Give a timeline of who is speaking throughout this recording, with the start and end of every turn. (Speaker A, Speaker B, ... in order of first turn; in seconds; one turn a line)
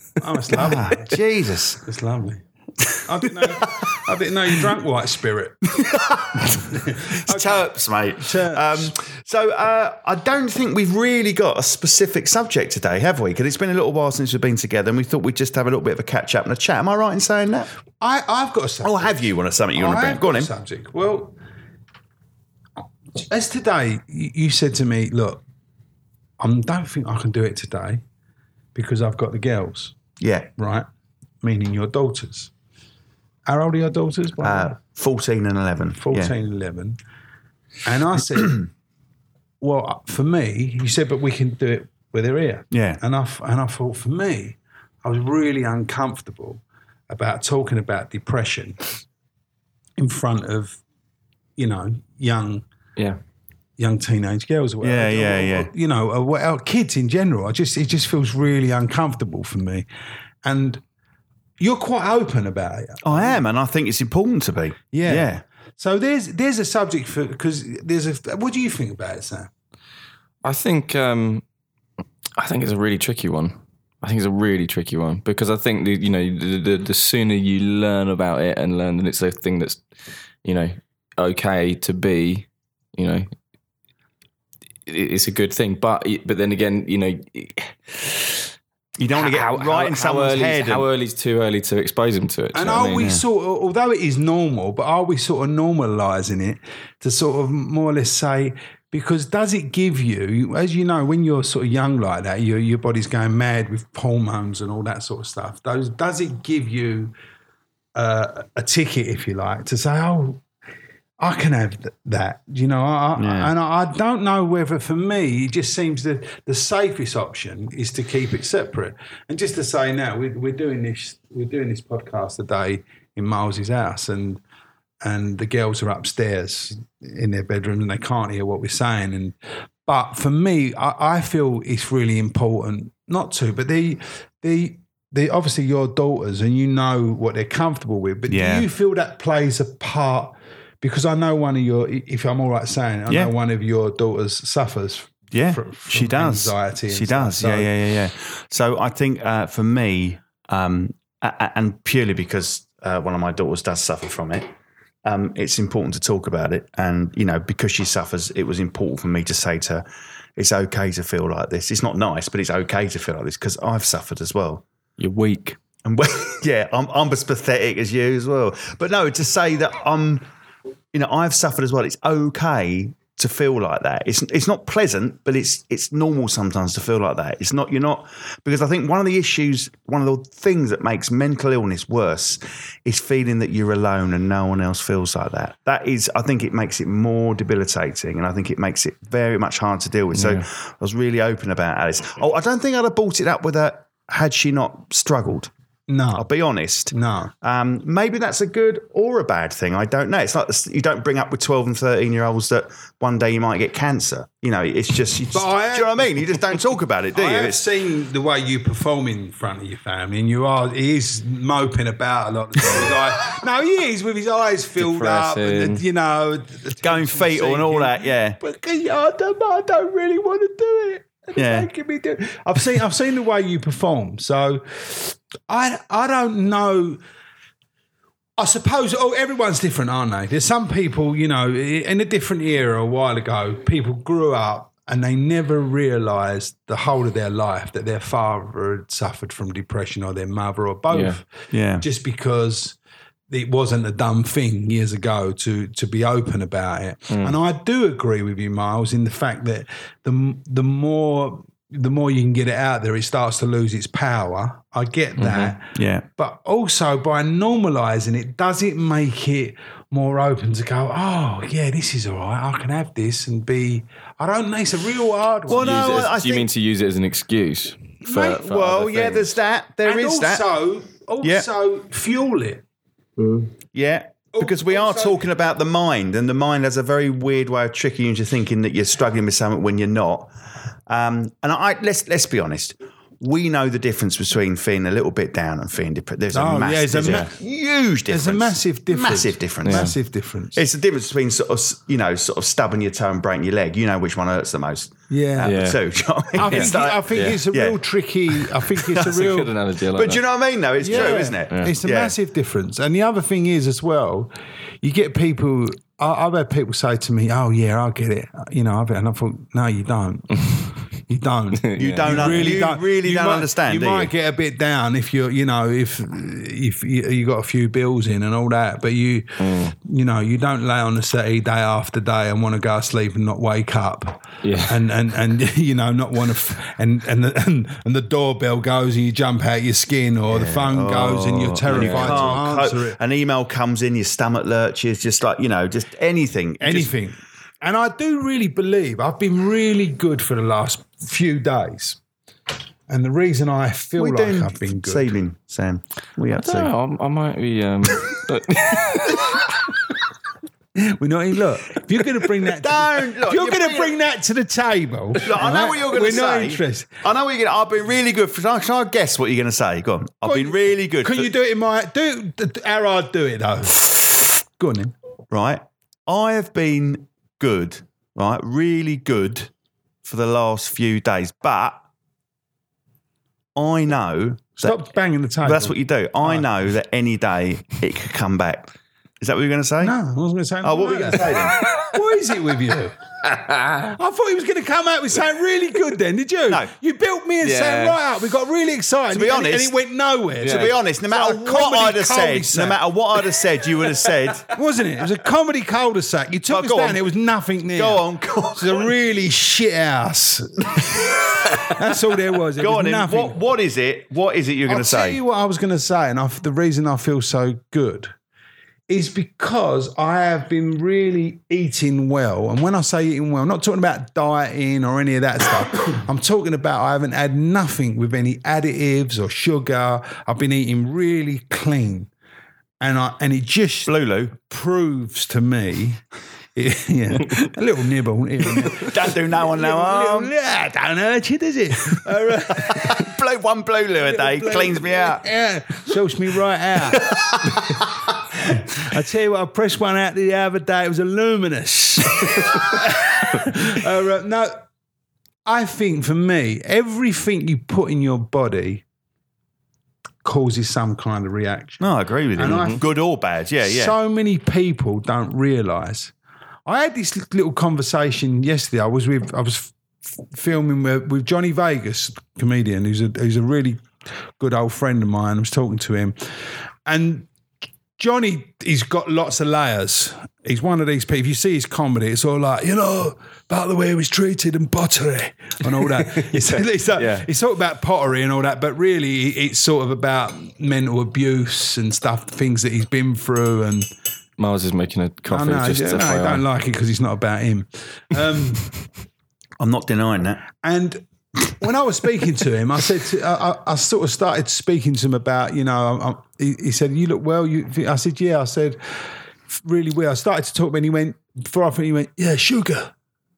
Speaker A: 0.2-1.2
Speaker B: 0.5-1.8
Speaker A: 1.8-2.4
Speaker A: 3.0-5.7
Speaker B: 3.2-4.0
Speaker B: 5.8-17.7
Speaker A: 6.3-8.9
Speaker A: 18.0-19.2
Speaker B: 18.8-20.5
Speaker A: 19.8-21.3
Speaker A: 23.1-25.4
Speaker A: 26.4-28.0
Speaker A: 28.7-29.9
Speaker B: 30.2-30.5
Speaker A: 30.6-30.9
Speaker A: 31.4-32.5
Speaker A: 33.5-34.8
Speaker B: 34.4-36.3
Speaker A: 35.9-37.0
Speaker A: 37.8-38.7
Speaker A: 39.6-49.0
Speaker B: 42.7-43.0
Speaker A: 50.0-50.8
Speaker A: 51.6-52.6
Speaker A: 53.8-59.9
Speaker B: 54.8-55.7
Speaker A: 60.4-60.8
Speaker A: 61.6-63.4
Speaker B: 63.0-65.4
Speaker A: 64.9-69.5
Speaker C: 70.4-71.4
Speaker C: 72.4-79.8
Speaker C: 80.4-83.3
Speaker C: 84.9-88.3
Speaker B: 89.0-90.9
Speaker C: 89.1-93.1
Speaker A: 92.5-107.1
Speaker B: 93.0-93.2
Speaker A: 108.0-110.4
Speaker A: 111.2-124.4
Speaker B: 113.2-113.5
Speaker A: 125.0-129.3
Speaker A: 129.8-147.7
Speaker B: 138.3-138.7
Speaker B: 145.3-154.5
Speaker B: 155.0-159.8
Speaker B: 160.4-164.6
Speaker C: 165.0-165.6
Speaker B: 165.8-170.2
Speaker B: 170.9-195.5
Speaker C: 190.1-190.4
Speaker A: 195.9-196.2
Speaker B: 196.1-207.6
Speaker A: 196.9-197.3
Speaker A: 205.3-206.6
Speaker A: 207.1-227.0
Speaker C: 214.8-215.8
Speaker B: 216.8-218.4
Speaker B: 221.3-221.7
Speaker A: 228.4-241.3
Speaker C: 240.9-241.2
Speaker B: 241.5-241.8
Speaker A: 241.8-242.8
Speaker A: 243.3-265.8
Speaker C: 247.1-247.3
Speaker C: 255.2-255.5
Speaker B: 255.7-256.1
Speaker B: 265.5-266.5
Speaker C: 265.5-269.4
Speaker B: 268.1-270.5
Speaker A: 269.8-272.6
Speaker B: 271.2-271.5
Speaker C: 273.2-273.4
Speaker B: 273.7-280.3
Speaker A: 274.3-275.2
Speaker B: 280.9-289.9
Speaker A: 286.3-287.3
Speaker C: 287.0-287.2
Speaker A: 288.1-290.6
Speaker C: 289.6-289.9
Speaker B: 290.5-297.8
Speaker A: 295.1-295.6
Speaker C: 295.4-295.8
Speaker A: 296.3-299.5
Speaker C: 296.4-297.4
Speaker B: 298.4-299.2
Speaker C: 298.9-300.2
Speaker B: 299.9-302.1
Speaker A: 300.8-304.3
Speaker C: 300.9-301.7
Speaker A: 304.8-333.0
Speaker C: 311.6-312.6
Speaker B: 311.7-314.1
Speaker C: 319.4-319.7
Speaker C: 324.4-324.8
Speaker B: 330.3-336.9
Speaker C: 331.7-332.4
Speaker A: 336.6-342.0
Speaker A: 342.9-345.2
Speaker B: 344.0-346.7
Speaker C: 346.3-349.6
Speaker A: 350.8-357.0
Speaker B: 352.5-353.9
Speaker B: 355.1-361.3
Speaker A: 360.2-364.9
Speaker B: 365.3-369.5
Speaker B: 370.0-371.8
Speaker B: 373.6-374.8
Speaker A: 374.6-376.4
Speaker B: 375.4-379.9
Speaker A: 379.8-383.0
Speaker B: 380.6-381.6
Speaker A: 383.7-392.8
Speaker C: 387.4-388.0
Speaker B: 389.1-389.7
Speaker C: 390.4-390.7
Speaker B: 390.4-394.5
Speaker A: 394.5-403.4
Speaker B: 396.5-397.0
Speaker B: 397.7-398.9
Speaker B: 402.6-405.2
Speaker A: 404.7-408.1
Speaker A: 408.9-422.1
Speaker A: 422.8-426.0
Speaker B: 423.9-424.3
Speaker A: 426.5-433.1
Speaker B: 428.5-430.3
Speaker B: 432.5-435.2
Speaker A: 434.0-437.6
Speaker B: 436.9-437.9
Speaker A: 438.4-444.6
Speaker A: 445.4-448.8
Speaker A: 450.2-451.8
Speaker B: 451.8-453.9
Speaker A: 452.4-452.8
Speaker C: 452.5-452.8
Speaker A: 453.6-456.1
Speaker A: 456.6-463.9
Speaker A: 464.4-466.1
Speaker A: 466.9-467.3
Speaker A: 468.0-483.9
Speaker C: 475.9-477.2
Speaker C: 484.4-486.4
Speaker A: 485.3-488.7
Speaker B: 489.6-490.4
Speaker A: 490.6-491.0
Speaker A: 491.6-499.0
Speaker A: 499.5-502.9